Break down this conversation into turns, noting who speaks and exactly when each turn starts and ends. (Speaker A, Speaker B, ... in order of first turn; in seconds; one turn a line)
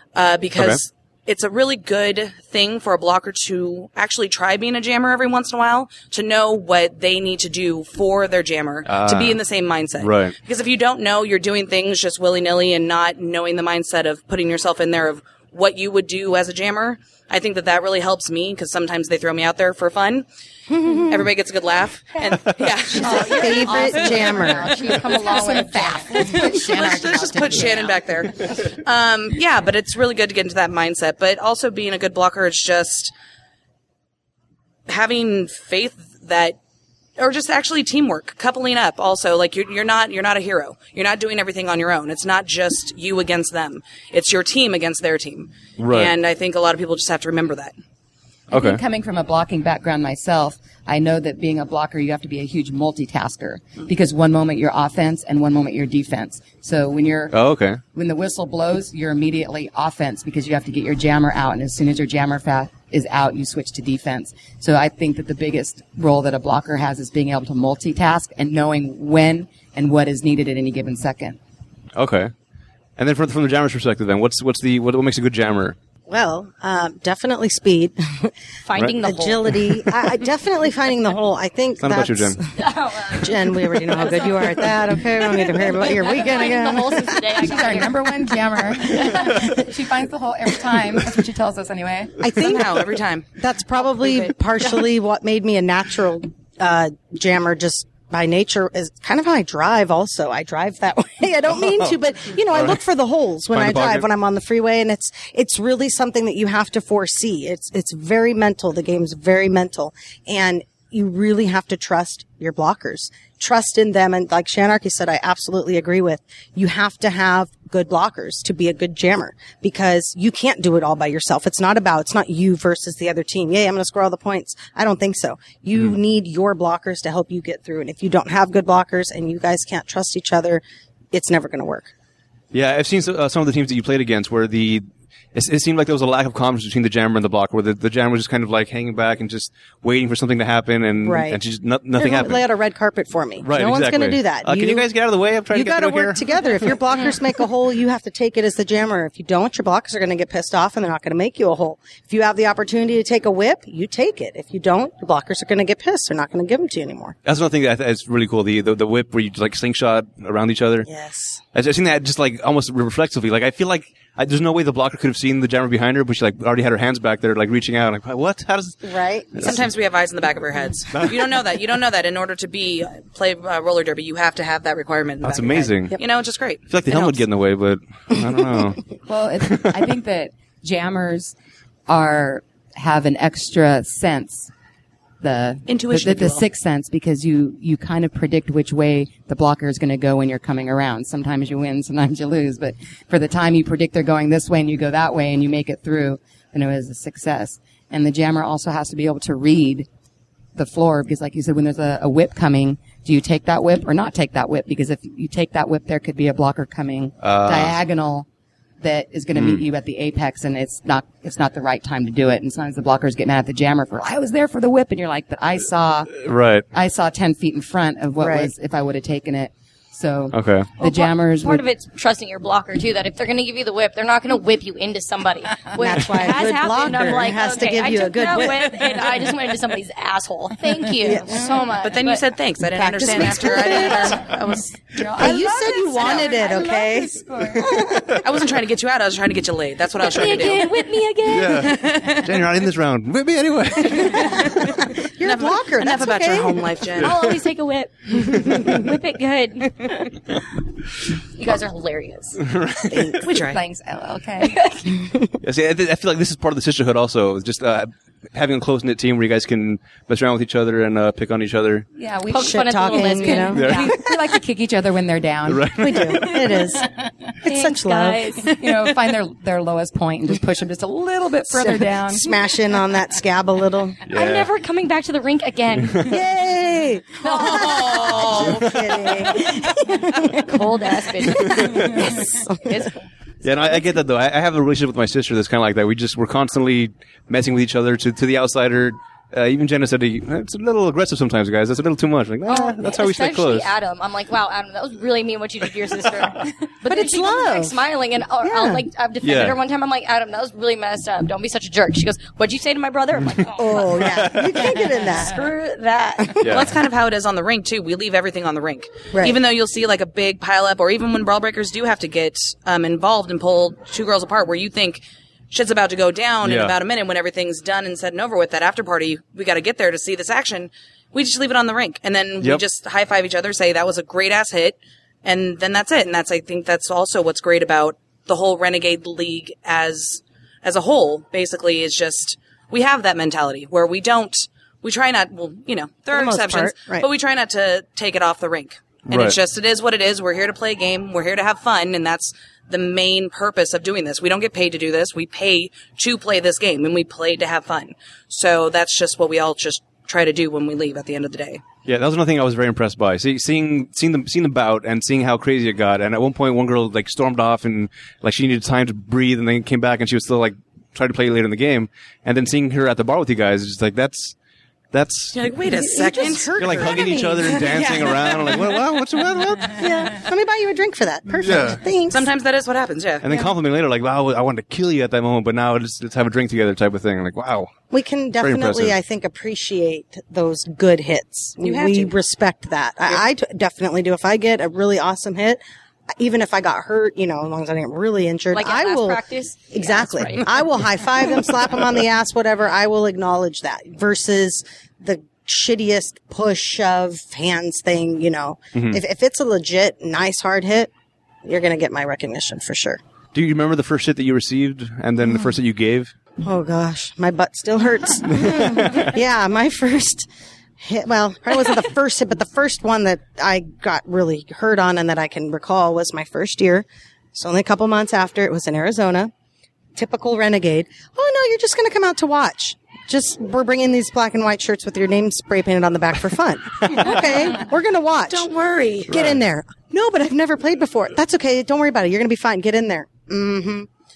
Speaker A: 0.1-20.3
Speaker B: 8.9-9.4
Speaker B: 10.0-10.3
Speaker C: 20.7-21.2
Speaker A: 20.9-24.2
Speaker D: 23.0-26.6
Speaker C: 23.0-24.8
Speaker E: 24.2-27.9
Speaker A: 26.3-33.1
Speaker A: 34.9-36.6
Speaker A: 37.2-47.7
Speaker B: 45.8-46.1
Speaker B: 48.5-48.8
Speaker E: 48.5-57.4
Speaker B: 57.3-57.8
Speaker E: 57.9-71.4
Speaker B: 72.0-72.3
Speaker B: 73.0-75.8
Speaker C: 76.1-78.3
Speaker D: 78.7-79.6
Speaker C: 79.0-82.5
Speaker B: 81.8-82.4
Speaker D: 82.6-88.2
Speaker C: 83.1-87.4
Speaker E: 87.4-92.2
Speaker C: 89.0-89.3
Speaker C: 92.2-131.9
Speaker A: 92.3-93.3
Speaker B: 101.5-102.0
Speaker B: 102.5-102.8
Speaker B: 103.5-104.1
Speaker B: 132.5-142.5
Speaker C: 141.0-141.4
Speaker C: 142.0-144.9
Speaker B: 143.4-146.8
Speaker C: 145.5-157.2
Speaker B: 157.2-160.9
Speaker C: 160.8-161.4
Speaker B: 161.6-168.8
Speaker C: 168.8-169.5
Speaker B: 169.4-169.6
Speaker A: 169.4-177.2
Speaker B: 170.9-171.2
Speaker B: 175.2-176.0
Speaker B: 176.7-178.8
Speaker E: 179.1-181.3
Speaker B: 179.5-179.7
Speaker E: 181.9-184.5
Speaker E: 185.2-199.9
Speaker A: 185.7-186.4
Speaker E: 200.6-208.3
Speaker B: 207.2-207.8
Speaker E: 208.8-216.1
Speaker B: 209.3-209.6
Speaker B: 216.1-216.7
Speaker E: 216.7-221.6
Speaker C: 218.2-218.5
Speaker B: 220.3-220.7
Speaker D: 220.8-232.2
Speaker C: 225.8-228.8
Speaker C: 231.0-231.7
Speaker A: 231.8-234.8
Speaker C: 232.7-234.2
Speaker E: 233.6-234.2
Speaker E: 234.9-238.0
Speaker C: 235.2-238.2
Speaker A: 235.9-236.3
Speaker A: 238.2-240.7
Speaker D: 240.0-241.7
Speaker B: 241.3-244.6
Speaker A: 241.7-242.2
Speaker C: 244.1-246.8
Speaker A: 245.2-247.2
Speaker D: 247.0-250.2
Speaker D: 251.4-252.4
Speaker B: 252.4-253.2
Speaker E: 253.1-254.6
Speaker A: 253.2-253.6
Speaker D: 254.4-254.9
Speaker B: 255.4-261.9
Speaker E: 262.0-266.3
Speaker D: 262.3-264.0
Speaker C: 262.4-263.6
Speaker B: 263.5-263.9
Speaker B: 265.5-266.4
Speaker C: 265.8-266.9
Speaker C: 267.4-268.4
Speaker D: 267.4-268.9
Speaker E: 268.5-272.4
Speaker C: 271.5-274.0
Speaker B: 274.1-274.5
Speaker D: 274.1-276.2
Speaker B: 275.8-276.1
Speaker C: 276.0-280.6
Speaker D: 277.2-278.3
Speaker A: 277.4-278.7
Speaker B: 278.4-279.1
Speaker D: 280.3-283.1
Speaker C: 281.2-282.8
Speaker B: 281.5-281.8
Speaker B: 283.4-293.7
Speaker D: 292.5-306.4
Speaker C: 296.9-297.7
Speaker C: 298.4-298.8
Speaker B: 299.2-299.6
Speaker C: 303.6-305.5
Speaker C: 306.2-306.5
Speaker B: 306.4-306.7
Speaker A: 306.5-351.6
Speaker B: 316.4-316.7
Speaker C: 336.1-337.1
Speaker B: 339.1-339.4
Speaker B: 351.9-364.4
Speaker B: 364.9-365.5
Speaker A: 365.3-367.1
Speaker C: 365.6-368.6
Speaker B: 366.6-369.9
Speaker A: 367.7-368.1
Speaker C: 369.7-372.3
Speaker B: 371.4-371.8
Speaker A: 372.1-373.2
Speaker B: 373.2-377.7
Speaker C: 373.3-373.5
Speaker C: 377.9-385.6
Speaker B: 378.4-379.0
Speaker A: 381.6-382.1
Speaker C: 386.2-389.2
Speaker D: 388.5-390.7
Speaker C: 389.7-400.9
Speaker B: 398.8-399.0
Speaker C: 401.4-403.0
Speaker B: 403.3-406.1
Speaker C: 406.4-410.3
Speaker B: 408.3-409.1
Speaker C: 410.8-419.3
Speaker C: 420.0-428.5
Speaker A: 428.3-429.1
Speaker B: 429.1-429.4
Speaker C: 429.1-433.9